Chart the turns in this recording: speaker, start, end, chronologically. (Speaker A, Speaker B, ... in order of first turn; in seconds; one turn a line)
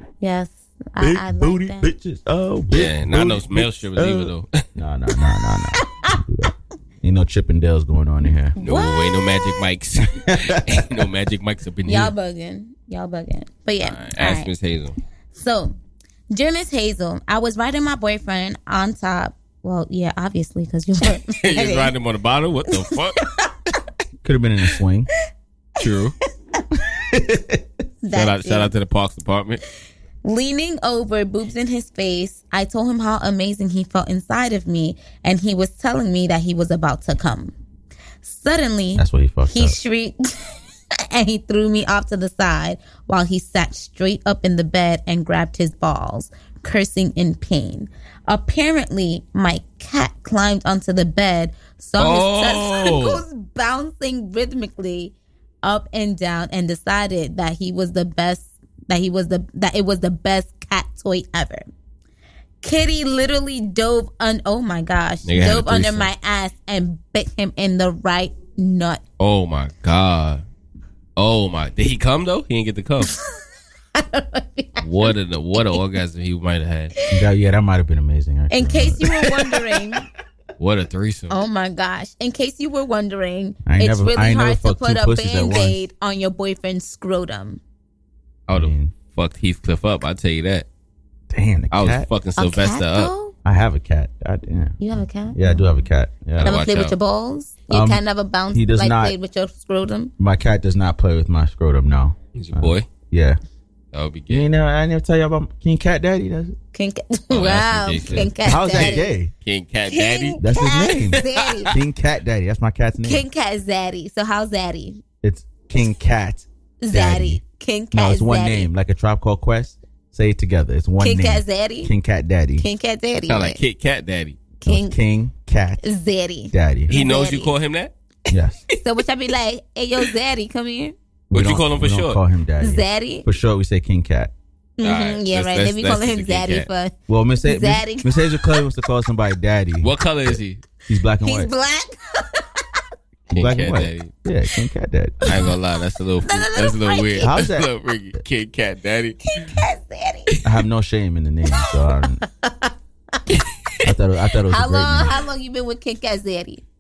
Speaker A: 0.2-1.9
Speaker B: 1.0-8.5
Speaker C: 2.7-4.5
Speaker A: 5.8-6.2
Speaker A: 8.6-9.6
Speaker C: 8.6-12.1
Speaker B: 10.2-10.6
Speaker A: 11.9-14.5
Speaker C: 13.8-14.9
Speaker A: 15.3-15.7
Speaker A: 16.3-21.9
Speaker C: 21.4-23.2
Speaker B: 24.2-25.1
Speaker C: 25.8-26.1
Speaker B: 27.1-27.6
Speaker A: 28.0-28.7
Speaker C: 28.1-29.6
Speaker A: 30.2-37.5
Speaker A: 38.2-40.1
Speaker B: 39.0-39.8
Speaker A: 41.1-61.7
Speaker C: 52.0-53.2
Speaker A: 62.6-69.0
Speaker C: 65.2-66.1
Speaker C: 69.2-70.4
Speaker C: 71.2-73.1
Speaker A: 74.0-75.8
Speaker C: 74.8-76.9
Speaker B: 77.1-79.6
Speaker A: 78.5-80.1
Speaker C: 80.6-81.4
Speaker A: 81.3-87.6
Speaker B: 83.6-85.8
Speaker C: 88.5-90.7
Speaker B: 88.5-88.9
Speaker B: 91.3-92.1
Speaker C: 91.7-93.1
Speaker A: 92.4-93.3
Speaker B: 93.4-94.8
Speaker A: 94.8-95.7
Speaker B: 95.3-96.5
Speaker C: 96.3-96.9
Speaker A: 96.4-100.1
Speaker B: 97.7-99.2
Speaker B: 100.2-103.4
Speaker C: 102.3-102.9
Speaker C: 103.9-104.5
Speaker B: 104.3-106.5
Speaker A: 106.7-109.1
Speaker C: 107.3-110.4
Speaker B: 108.3-109.3
Speaker A: 109.9-111.7
Speaker B: 110.4-113.2
Speaker C: 111.1-111.7
Speaker A: 113.0-115.0
Speaker B: 115.2-117.4
Speaker A: 116.8-118.7
Speaker B: 117.9-122.6
Speaker A: 121.0-121.9
Speaker A: 122.6-123.6
Speaker C: 123.3-124.4
Speaker A: 124.6-125.0
Speaker B: 124.6-125.8
Speaker A: 125.8-127.5
Speaker B: 126.5-126.9
Speaker C: 126.9-127.9
Speaker B: 128.3-128.6
Speaker A: 128.7-130.9
Speaker B: 131.3-134.3
Speaker C: 131.3-132.2
Speaker A: 132.6-133.3
Speaker A: 134.8-138.6
Speaker C: 134.8-136.7
Speaker B: 137.1-141.5
Speaker C: 139.8-140.6
Speaker A: 141.2-142.6
Speaker C: 143.3-144.1
Speaker B: 143.3-145.3
Speaker C: 145.2-149.2
Speaker A: 146.2-147.3
Speaker B: 147.2-147.7
Speaker A: 149.3-150.3
Speaker B: 150.4-152.2
Speaker A: 151.6-153.2
Speaker B: 153.8-155.1
Speaker A: 154.5-156.6